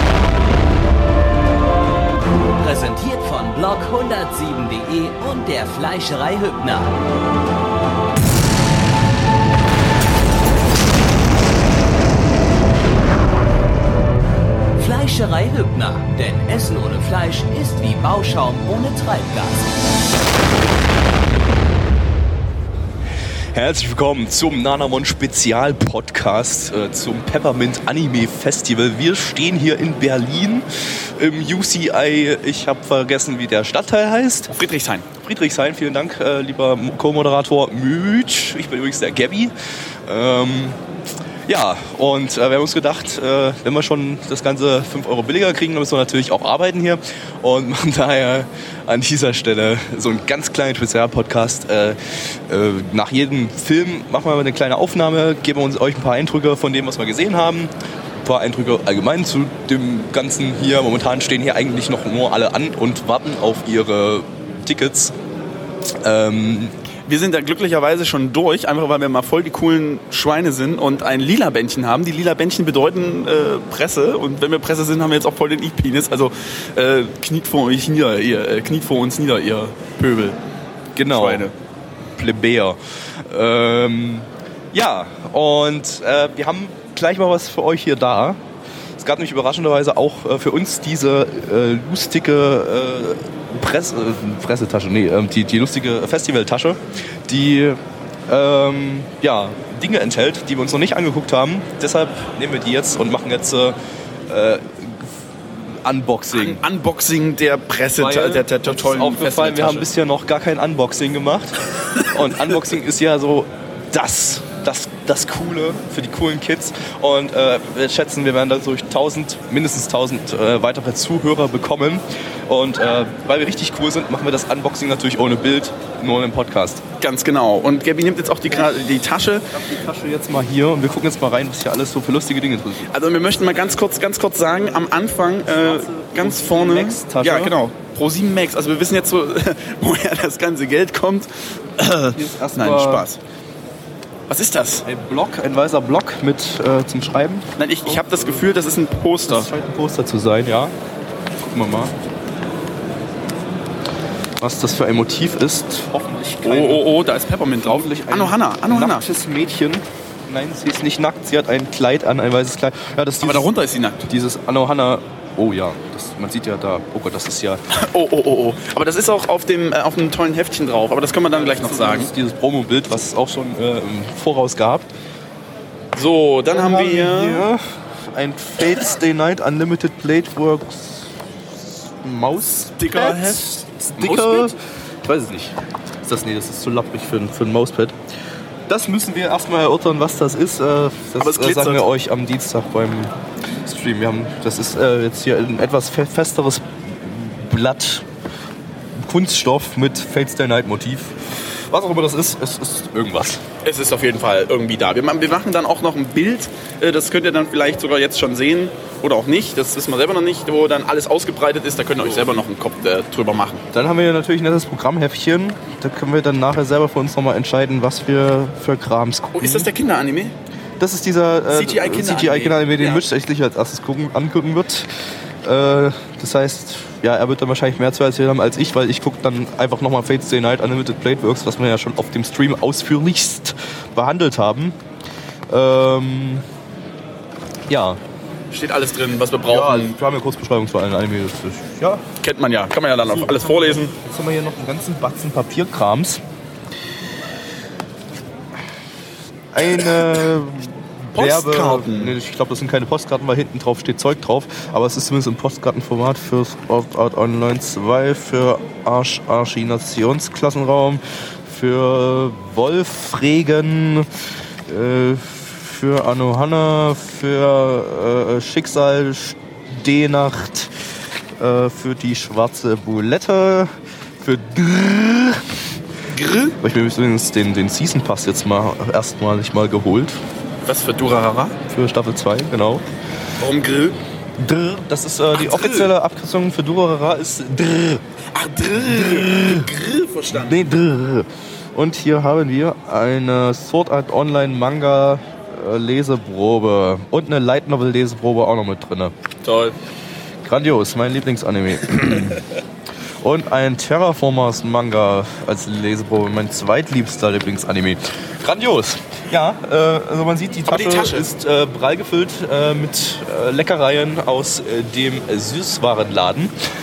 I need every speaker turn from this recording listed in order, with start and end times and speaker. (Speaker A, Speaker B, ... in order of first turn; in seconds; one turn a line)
Speaker A: 2.5-7.0
Speaker A: 14.8-19.7
Speaker B: 23.5-34.5
Speaker C: 34.5-35.0
Speaker B: 35.2-39.5
Speaker B: 40.0-40.8
Speaker B: 41.5-57.7
Speaker B: 58.2-65.2
Speaker B: 66.0-66.7
Speaker C: 67.1-80.4
Speaker B: 81.0-81.5
Speaker C: 81.1-81.5
Speaker B: 82.2-88.4
Speaker B: 89.0-105.1
Speaker B: 105.7-106.6
Speaker C: 106.3-109.8
Speaker B: 108.0-126.8
Speaker C: 127.0-129.5
Speaker B: 128.5-132.9
Speaker C: 132.9-143.2
Speaker B: 135.5-137.5
Speaker B: 142.1-143.0
Speaker C: 144.3-144.8
Speaker B: 144.8-148.4
Speaker C: 147.6-149.5
Speaker B: 149.2-150.7
Speaker B: 151.4-151.9
Speaker B: 154.4-156.9
Speaker C: 156.4-159.1
Speaker B: 157.5-163.5
Speaker C: 163.2-164.1
Speaker B: 164.1-167.6
Speaker C: 167.7-172.1
Speaker B: 171.3-174.9
Speaker C: 175.9-177.4
Speaker B: 176.5-188.0
Speaker C: 182.8-184.5
Speaker B: 188.7-198.1
Speaker C: 191.2-191.8
Speaker B: 199.0-203.4
Speaker C: 203.6-213.6
Speaker B: 212.0-212.3
Speaker B: 213.7-219.7
Speaker C: 219.3-220.3
Speaker B: 220.8-224.9
Speaker C: 221.5-223.0
Speaker B: 225.4-234.8
Speaker B: 235.5-236.4
Speaker B: 237.7-238.0
Speaker C: 238.5-239.9
Speaker B: 239.5-242.0
Speaker C: 242.2-243.9
Speaker B: 243.0-246.2
Speaker B: 249.5-264.1
Speaker C: 251.1-252.2
Speaker B: 264.7-270.7
Speaker B: 271.4-275.6
Speaker C: 276.1-276.6
Speaker B: 276.6-280.2
Speaker C: 280.6-281.6
Speaker B: 281.7-282.8
Speaker C: 283.4-284.0
Speaker B: 284.4-288.0
Speaker C: 285.4-285.9
Speaker C: 288.3-290.6
Speaker B: 288.7-289.7
Speaker B: 290.3-299.1
Speaker C: 299.4-299.7
Speaker B: 300.4-302.4
Speaker B: 303.2-316.5
Speaker C: 310.7-311.3